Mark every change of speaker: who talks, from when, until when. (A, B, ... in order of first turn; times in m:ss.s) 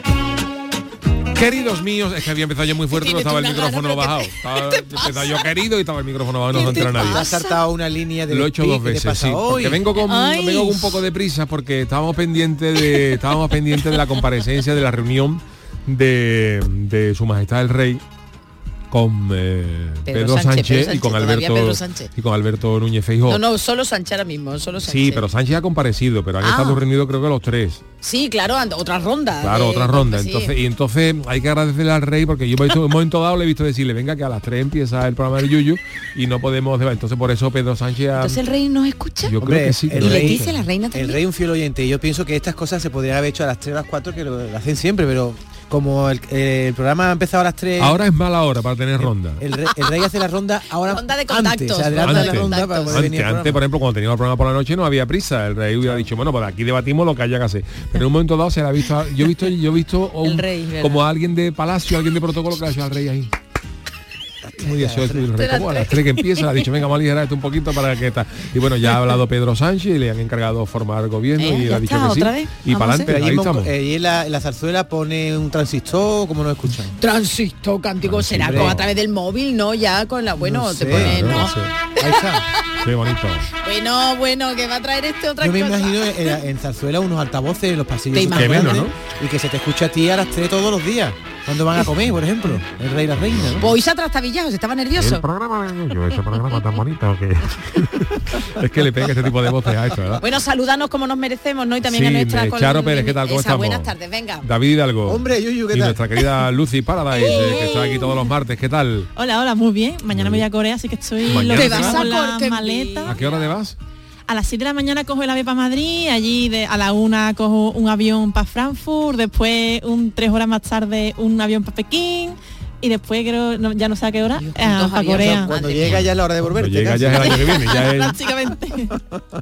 0:01.3-0:07.3 A
0:02.9-0:05.4 B
0:06.5-0:07.6 B
0:06.6-0:09.8 C
0:08.3-0:18.0 A
0:10.0-0:11.0 B
0:18.9-0:23.4 A
0:20.0-0:22.1 B
0:23.3-0:25.2 B
0:24.8-0:27.8 A
0:26.4-0:26.8 B
0:28.0-0:30.5 B
0:29.4-0:38.4 A
0:38.2-0:39.4 B
0:39.3-0:40.6 A
0:39.4-0:48.0 C
0:39.9-0:41.2 B
0:47.8-0:49.4 A
0:49.0-0:53.6 C
0:50.9-0:53.1 B
0:51.9-1:03.3 A
1:00.2-1:01.0 B
1:04.5-1:05.3 C
1:04.6-1:13.7 A
1:05.4-1:06.5 B
1:11.4-1:13.1 B
1:13.1-1:16.9 C
1:17.0-1:21.5 B
1:18.0-1:18.8 A
1:18.4-1:18.8 C
1:20.4-1:21.4 C
1:20.8-1:21.7 A
1:22.0-1:22.4 C
1:22.8-1:23.5 A
1:23.6-1:26.1 B
1:25.4-1:33.7 C
1:28.1-1:28.9 B
1:28.3-1:28.9 A
1:33.6-1:35.2 B
1:35.0-1:40.2 A
1:40.2-1:44.5 B
1:41.8-1:49.1 A
1:45.0-1:46.0 C
1:47.1-1:48.2 B
1:49.2-1:53.4 D
1:50.1-1:50.4 A
1:51.3-1:52.1 A
1:51.4-1:53.3 B
1:53.0-1:53.7 A
1:54.3-2:05.5 D
2:04.4-2:06.0 B
2:05.2-2:07.5 C
2:06.5-2:08.2 A
2:07.1-2:08.0 B
2:07.5-2:09.0 D